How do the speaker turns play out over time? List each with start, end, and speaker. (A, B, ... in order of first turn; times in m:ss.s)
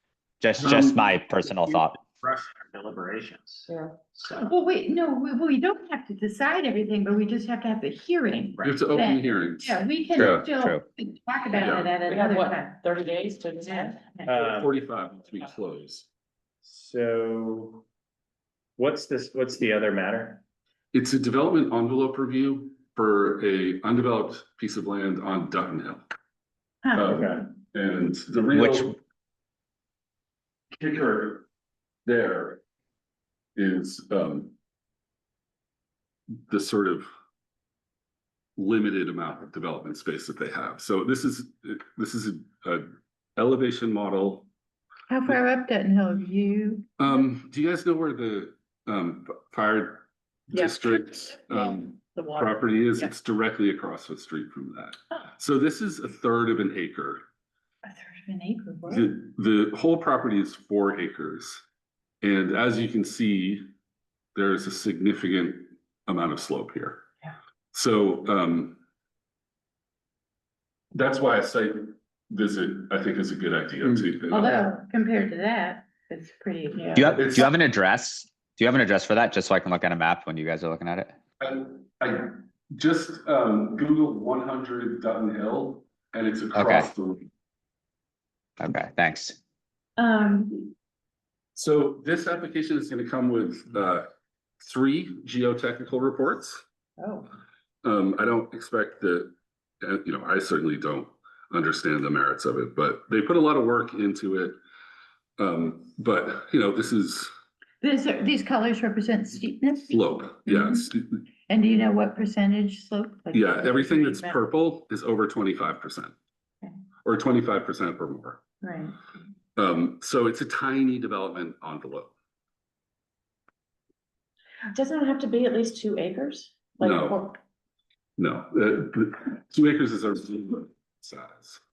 0:00.4-0:02.1 A
0:01.6-0:04.5 B
0:03.7-0:04.1 C
0:04.5-0:12.7 D
0:08.6-0:10.4 E
0:10.2-0:10.8 A
0:11.6-0:11.9 E
0:12.1-0:14.3 C
0:13.7-0:14.2 D
0:14.2-0:14.7 F
0:14.4-0:16.1 E
0:16.6-0:17.8 F
0:18.8-0:20.4 F
0:20.9-0:26.0 E
0:26.8-0:27.4 D
0:26.9-0:29.0 E
0:27.1-0:27.4 F
0:28.5-0:28.9 A
0:30.8-0:31.4 E
0:32.0-0:32.6 E
0:33.6-0:34.5 E
0:36.5-0:37.1 E
0:38.6-0:44.5 E
0:45.1-0:47.2 D
0:47.0-0:57.2 E
0:51.5-0:53.0 C
0:57.8-0:59.1 D
0:58.9-1:01.6 E
1:02.2-1:03.7 E
1:04.3-1:07.1 E
1:07.7-1:08.8 E
1:10.9-1:14.6 E
1:14.3-1:17.5 D
1:16.9-1:21.1 A
1:17.2-1:17.5 E
1:21.4-1:27.3 E
1:26.5-1:26.9 A
1:28.6-1:29.4 A
1:30.0-1:30.7 D
1:31.6-1:34.1 E
1:34.6-1:36.6 E
1:37.0-1:37.3 D
1:37.8-1:44.6 E
1:45.4-1:47.3 E
1:47.8-1:51.0 D
1:49.9-1:51.2 E
1:51.5-1:54.4 D
1:53.3-1:56.1 E
1:57.0-1:58.4 E
1:58.6-1:59.0 D
1:59.6-2:02.1 E
2:04.7-2:07.4 C
2:06.8-2:07.3 E
2:08.2-2:11.6 E